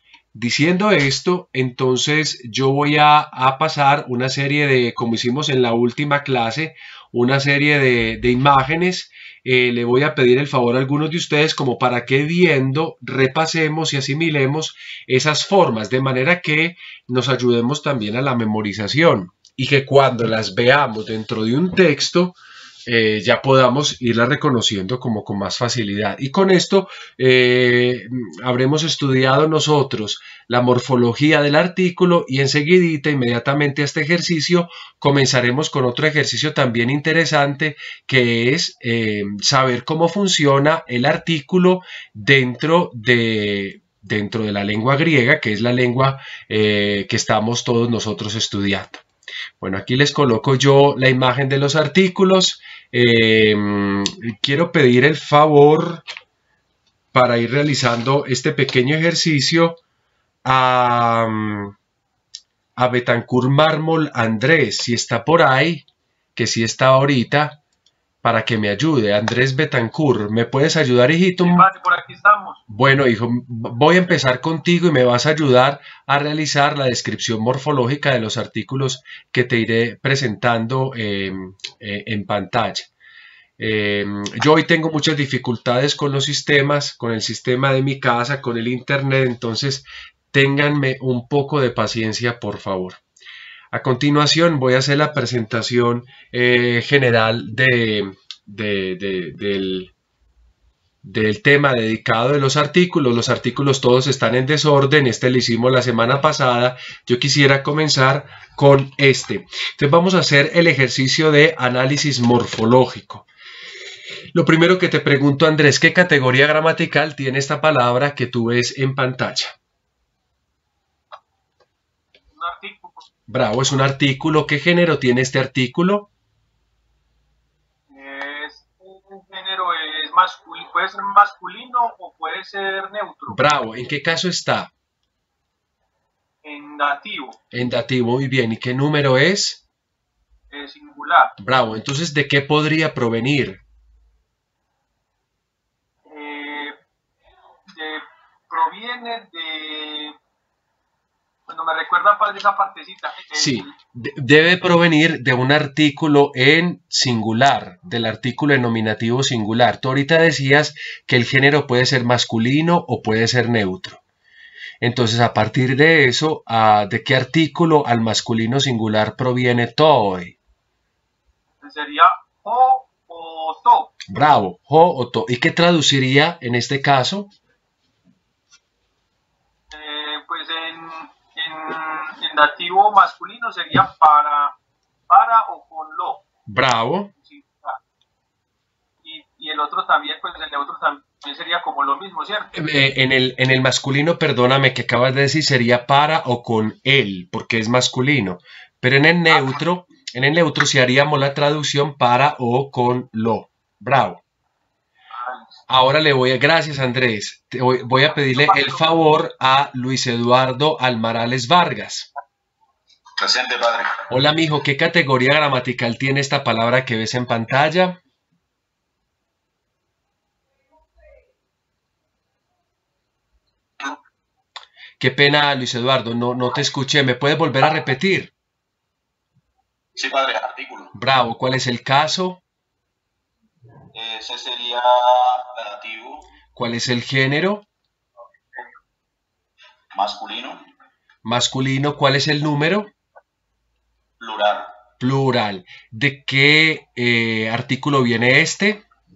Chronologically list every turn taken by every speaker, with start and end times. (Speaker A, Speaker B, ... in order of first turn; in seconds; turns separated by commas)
Speaker A: 0.3-49.0, Speaker A: 49.6-56.0, Speaker A: 57.1-59.8, Speaker A: 60.5-61.8, Speaker A: 62.8-67.6, Speaker A: 68.2-71.7, Speaker B: 71.4-72.6, Speaker A: 72.7-82.9, Speaker A: 83.6-93.0, Speaker A: 93.7-99.9, Speaker A: 101.0-113.3, Speaker A: 114.3-119.6, Speaker B: 122.3-123.1, Speaker A: 123.3-126.1, Speaker B: 127.9-133.6, Speaker A: 133.3-134.7, Speaker B: 136.4-137.4, Speaker A: 137.5-139.6, Speaker B: 140.5-141.3, Speaker A: 141.4-143.6, Speaker B: 146.1-146.8, Speaker B: 147.8-150.2, Speaker B: 151.5-153.7, Speaker A: 153.3-164.0, Speaker A: 164.8-170.4, Speaker B: 171.6-173.9, Speaker A: 174.1-177.3, Speaker B: 179.7-184.6, Speaker B: 185.1-186.2, Speaker A: 186.5-187.1, Speaker B: 187.2-187.8, Speaker B: 189.0-192.5, Speaker A: 192.5-204.2, Speaker A: 205.7-212.1, Speaker C: 213.2-214.0, Speaker A: 214.1-218.0, Speaker A: 225.0-228.3, Speaker C: 230.0-230.9, Speaker A: 230.9-232.4, Speaker C: 233.9-236.3, Speaker A: 236.6-237.7, Speaker C: 239.9-240.7, Speaker A: 241.2-242.9, Speaker C: 244.2-244.8, Speaker A: 245.0-248.8